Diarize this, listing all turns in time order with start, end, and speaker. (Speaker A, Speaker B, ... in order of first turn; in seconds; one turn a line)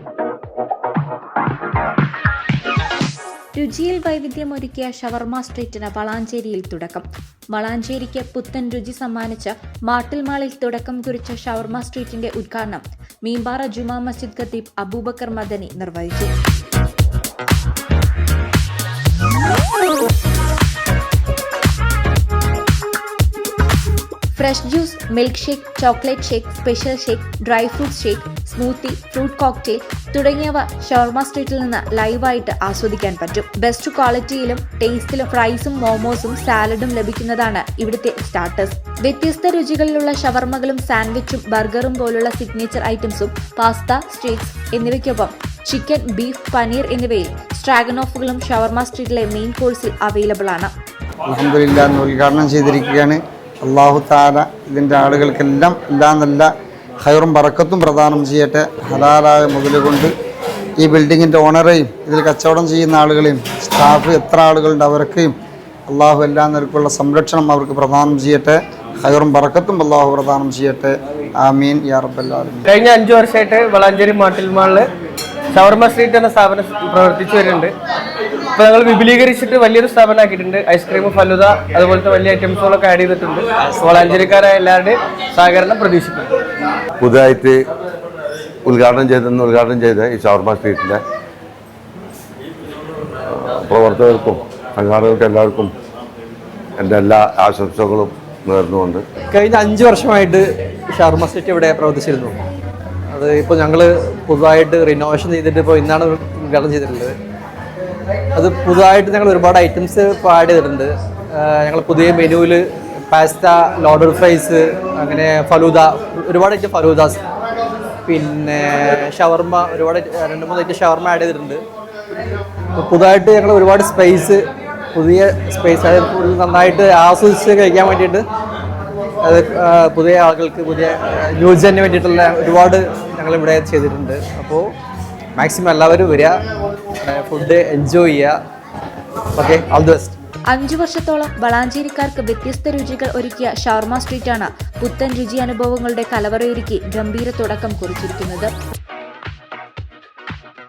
Speaker A: 3.5-16.3
Speaker A: 24.3-50.7
Speaker B: 51.3-60.1
Speaker B: 60.8-65.3
Speaker B: 65.9-72.7
Speaker C: 72.7-74.9
Speaker C: 75.5-77.7
Speaker C: 78.5-86.3
Speaker D: 83.6-84.3
Speaker E: 87.0-87.6
Speaker E: 88.6-91.0
Speaker E: 93.3-95.7
Speaker E: 96.8-99.0
Speaker D: 99.3-102.4
Speaker D: 103.1-107.2
Speaker D: 108.3-117.2
Speaker D: 118.0-121.6
Speaker D: 122.8-128.2
Speaker D: 129.2-134.7
Speaker D: 135.3-136.4
Speaker D: 137.0-138.4
Speaker D: 139.3-140.2
Speaker A: 140.5-148.5